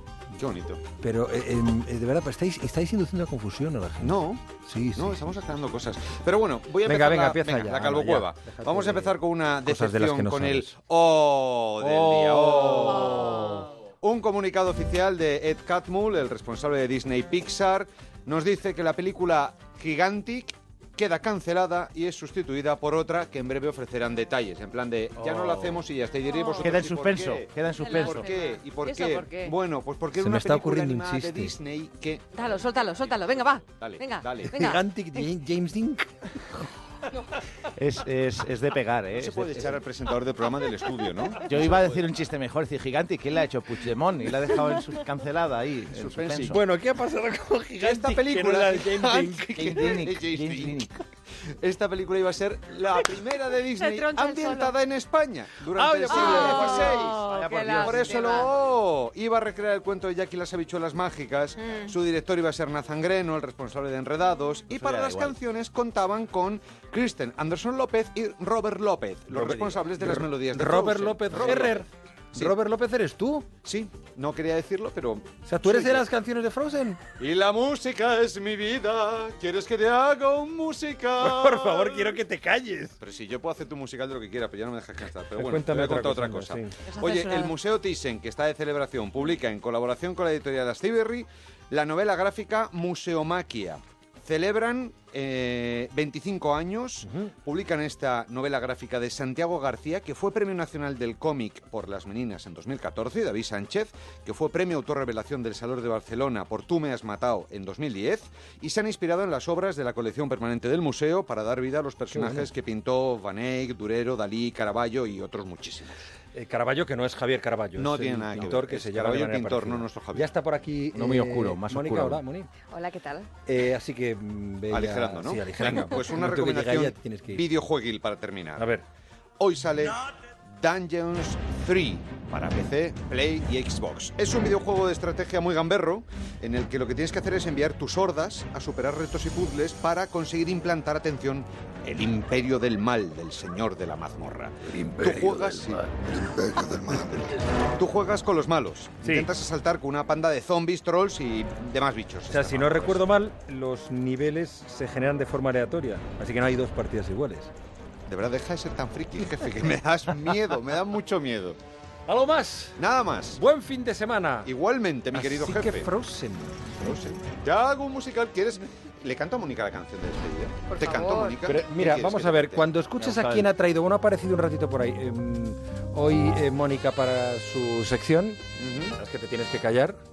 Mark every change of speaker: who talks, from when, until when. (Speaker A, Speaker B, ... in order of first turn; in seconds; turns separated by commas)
Speaker A: 0.4-0.8, Speaker B: 1.0-5.2, Speaker A: 4.0-4.4, Speaker A: 4.9-13.4, Speaker B: 6.8-10.7, Speaker B: 11.8-13.7, Speaker A: 14.0-34.7, Speaker C: 25.2-25.9, Speaker C: 26.6-28.3, Speaker D: 27.8-29.5, Speaker B: 30.1-31.5, Speaker D: 32.4-35.2, Speaker B: 34.5-36.5, Speaker C: 37.7-39.7, Speaker A: 39.1-41.9, Speaker C: 41.4-46.6, Speaker A: 46.0-46.6, Speaker B: 46.5-49.7, Speaker A: 47.8-50.8, Speaker C: 49.6-51.0, Speaker A: 51.6-72.5, Speaker D: 53.8-54.7, Speaker B: 55.7-56.9, Speaker D: 56.1-58.5, Speaker C: 56.4-58.4, Speaker B: 57.5-57.8, Speaker C: 64.7-65.4, Speaker B: 69.4-73.5, Speaker A: 73.6-76.0, Speaker B: 75.5-77.0, Speaker A: 77.2-82.2, Speaker B: 81.2-83.0, Speaker A: 83.0-116.1, Speaker B: 85.4-86.7, Speaker D: 86.9-87.5, Speaker B: 97.0-97.3, Speaker B: 112.1-112.5, Speaker B: 116.3-122.5, Speaker A: 117.8-120.3, Speaker C: 120.9-122.2, Speaker D: 122.7-123.3, Speaker B: 123.5-127.5, Speaker A: 124.7-128.7, Speaker B: 128.6-128.8, Speaker A: 129.4-130.0, Speaker A: 130.6-145.9, Speaker A: 146.9-147.1, Speaker A: 147.8-153.1, Speaker B: 149.0-149.3, Speaker B: 152.3-157.5, Speaker A: 158.1-161.6, Speaker B: 162.1-162.8, Speaker A: 162.8-163.4, Speaker B: 163.3-164.5, Speaker A: 164.4-165.9, Speaker B: 165.1-167.0, Speaker A: 166.8-172.7, Speaker D: 170.8-171.4, Speaker B: 171.4-178.4, Speaker C: 173.0-173.5, Speaker A: 178.6-179.0, Speaker B: 179.0-180.0